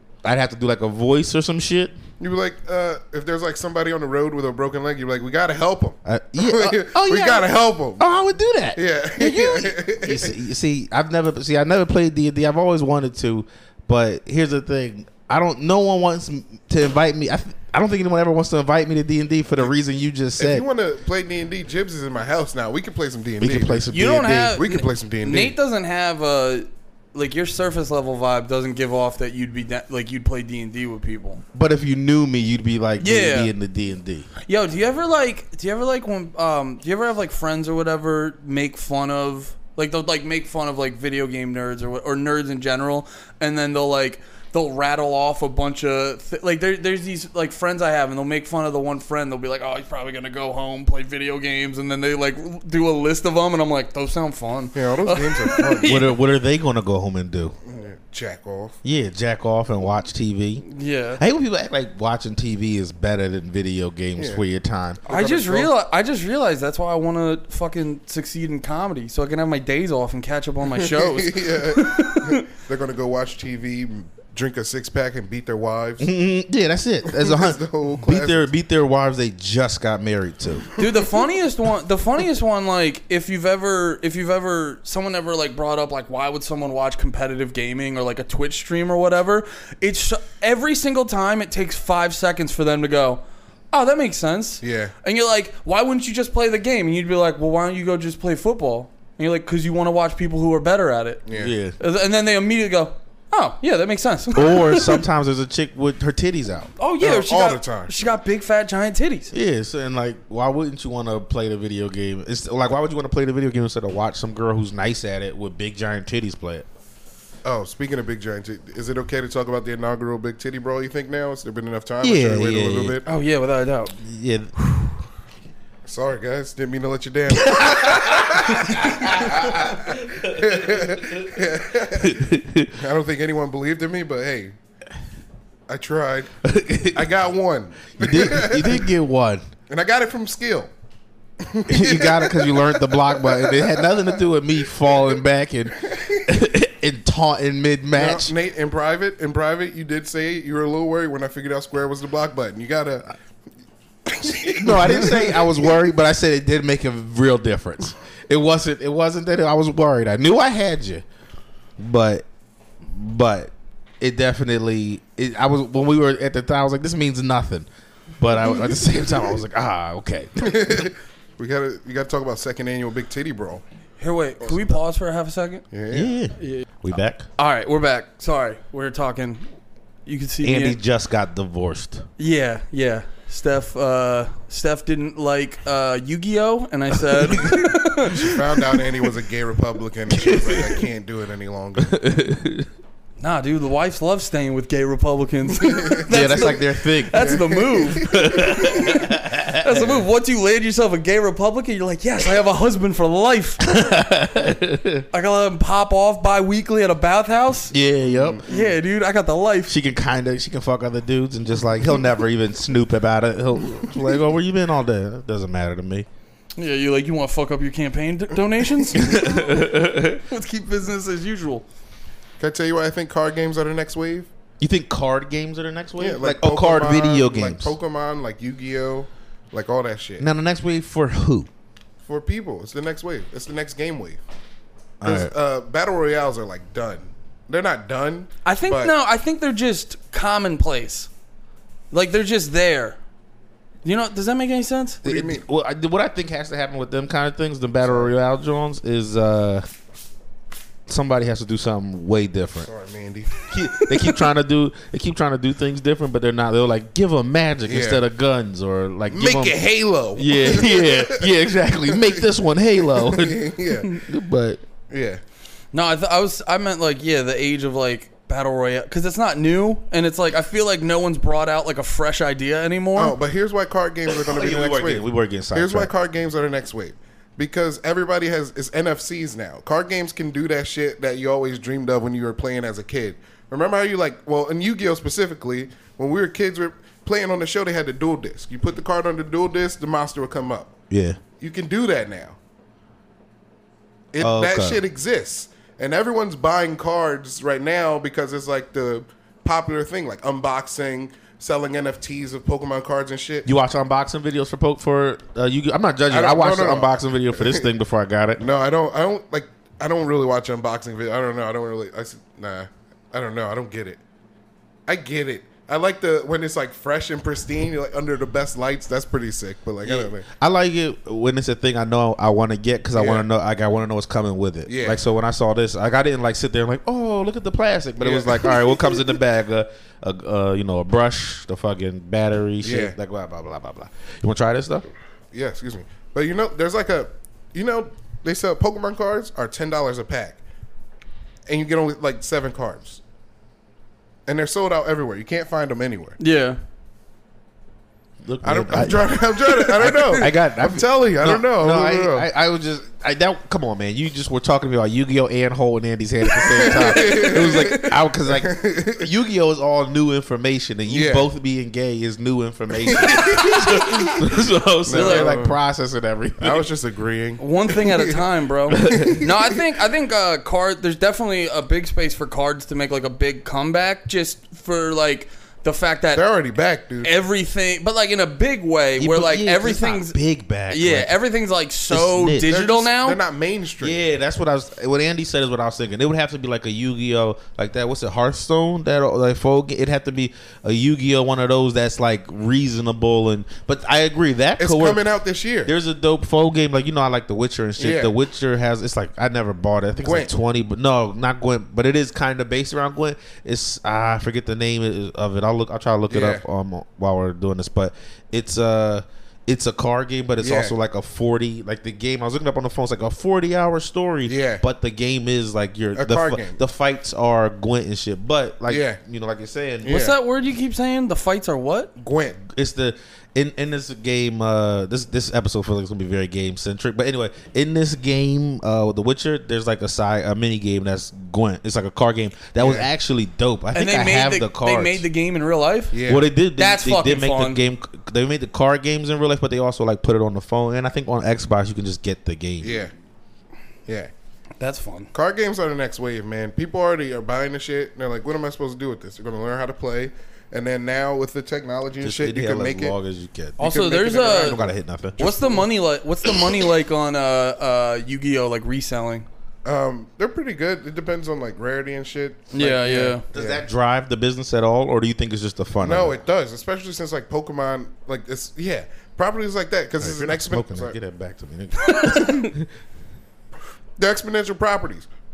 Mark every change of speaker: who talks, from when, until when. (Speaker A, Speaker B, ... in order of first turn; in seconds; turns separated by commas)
Speaker A: 0.2-1.9, Speaker B: 2.2-8.0, Speaker A: 6.0-20.6, Speaker B: 8.7-10.3, Speaker B: 20.4-23.9, Speaker A: 23.4-24.6, Speaker C: 23.9-31.4, Speaker B: 24.5-25.5, Speaker A: 31.5-34.3, Speaker C: 33.0-33.5, Speaker C: 34.5-56.1, Speaker B: 54.7-56.0, Speaker A: 55.9-57.5, Speaker B: 57.6-58.8, Speaker A: 58.8-60.6, Speaker C: 60.6-61.2, Speaker A: 61.2-65.0, Speaker B: 64.2-64.4, Speaker B: 65.0-65.7, Speaker C: 65.1-72.4, Speaker B: 70.8-76.1, Speaker A: 76.0-80.7, Speaker B: 77.1-78.5, Speaker C: 80.8-101.2, Speaker B: 94.6-94.9, Speaker B: 101.2-101.5, Speaker A: 101.4-101.8, Speaker C: 101.8-105.0, Speaker A: 104.3-106.7, Speaker C: 106.8-109.3, Speaker B: 107.0-107.9, Speaker A: 109.3-116.7, Speaker B: 117.4-123.0, Speaker A: 122.0-123.0, Speaker C: 123.0-123.9, Speaker A: 124.0-124.5, Speaker C: 124.6-124.9, Speaker B: 125.8-134.5, Speaker A: 127.4-131.3, Speaker A: 131.9-132.7, Speaker B: 135.7-136.3, Speaker A: 136.4-137.1, Speaker B: 136.9-138.9, Speaker A: 138.0-139.4, Speaker B: 139.7-140.7, Speaker B: 141.4-144.2, Speaker A: 141.7-148.3, Speaker B: 145.9-146.2, Speaker B: 147.9-153.1, Speaker B: 154.1-155.8, Speaker A: 154.5-161.0, Speaker A: 161.8-162.2, Speaker A: 162.8-167.7, Speaker A: 168.2-170.9, Speaker B: 170.4-173.6, Speaker C: 174.0-175.6, Speaker B: 174.4-174.8, Speaker B: 175.7-176.2, Speaker A: 175.9-177.2, Speaker C: 176.3-176.7, Speaker C: 177.3-179.5, Speaker C: 180.1-180.8, Speaker A: 180.4-182.0, Speaker C: 182.2-188.4, Speaker A: 187.1-188.3, Speaker B: 188.2-192.0, Speaker A: 190.1-190.8, Speaker A: 191.8-192.7, Speaker C: 193.2-203.6, Speaker B: 195.6-198.8, Speaker A: 196.1-197.4, Speaker A: 197.9-199.9, Speaker A: 203.6-205.0, Speaker C: 205.1-207.7, Speaker A: 207.7-208.4, Speaker B: 208.1-208.7, Speaker C: 208.5-209.7, Speaker A: 209.7-216.1, Speaker C: 216.6-219.7, Speaker A: 218.9-220.2, Speaker C: 220.2-221.7, Speaker B: 222.4-224.3, Speaker A: 224.6-227.7, Speaker B: 226.0-230.3, Speaker A: 230.2-231.5, Speaker B: 232.1-234.2, Speaker A: 235.0-235.3, Speaker B: 235.0-238.9, Speaker C: 238.4-241.1, Speaker C: 241.9-243.0, Speaker C: 243.8-245.0, Speaker B: 245.0-245.4, Speaker A: 245.0-249.6, Speaker B: 247.8-248.1, Speaker A: 250.9-252.7, Speaker B: 252.6-253.9, Speaker A: 253.5-259.6, Speaker B: 257.6-258.0, Speaker B: 259.1-261.3, Speaker A: 260.1-264.6, Speaker B: 261.9-262.2, Speaker B: 262.9-264.0, Speaker B: 264.9-265.2, Speaker C: 265.7-273.1, Speaker B: 272.9-290.7, Speaker A: 274.2-275.9, Speaker A: 290.9-291.2, Speaker B: 291.4-292.4, Speaker B: 294.1-303.5, Speaker A: 294.2-294.8, Speaker A: 303.4-308.4, Speaker B: 306.1-307.7, Speaker B: 308.4-314.0, Speaker B: 314.9-320.3, Speaker A: 319.8-334.9, Speaker B: 322.9-323.2, Speaker B: 324.7-325.0, Speaker B: 328.0-329.1, Speaker B: 332.6-332.9, Speaker B: 335.3-340.4, Speaker B: 341.5-343.0, Speaker B: 344.3-346.2, Speaker C: 346.2-346.6, Speaker A: 348.2-366.7, Speaker B: 348.4-352.3, Speaker B: 356.4-359.1, Speaker B: 360.9-361.3, Speaker B: 362.8-363.9, Speaker B: 364.9-365.6, Speaker C: 364.9-365.3, Speaker B: 366.4-368.2, Speaker C: 367.4-376.2, Speaker A: 368.8-369.2, Speaker B: 368.8-369.4, Speaker B: 376.1-377.1, Speaker C: 377.0-380.2, Speaker A: 379.0-381.1, Speaker C: 380.7-383.2, Speaker A: 381.9-382.5, Speaker B: 382.4-384.0, Speaker A: 383.8-395.0, Speaker B: 394.6-395.7, Speaker A: 395.6-419.9, Speaker B: 397.8-398.1, Speaker B: 400.0-400.3, Speaker B: 406.1-406.4, Speaker B: 410.4-410.7, Speaker B: 414.3-414.6, Speaker B: 415.9-416.6, Speaker B: 418.7-419.0, Speaker B: 419.8-420.1, Speaker C: 419.9-421.9, Speaker B: 422.0-422.4, Speaker A: 422.4-435.0, Speaker B: 432.6-432.9, Speaker C: 433.7-435.9, Speaker B: 435.9-436.3, Speaker A: 436.1-442.8, Speaker C: 436.6-437.6, Speaker B: 442.6-442.9, Speaker C: 444.6-445.1, Speaker B: 445.1-452.9, Speaker A: 452.0-455.6, Speaker C: 453.6-454.6, Speaker B: 453.6-455.6, Speaker C: 455.2-459.3, Speaker B: 459.6-463.6, Speaker C: 462.5-463.2, Speaker A: 463.3-466.2, Speaker B: 465.8-470.9, Speaker A: 470.0-472.7, Speaker C: 471.9-472.5, Speaker B: 474.0-475.1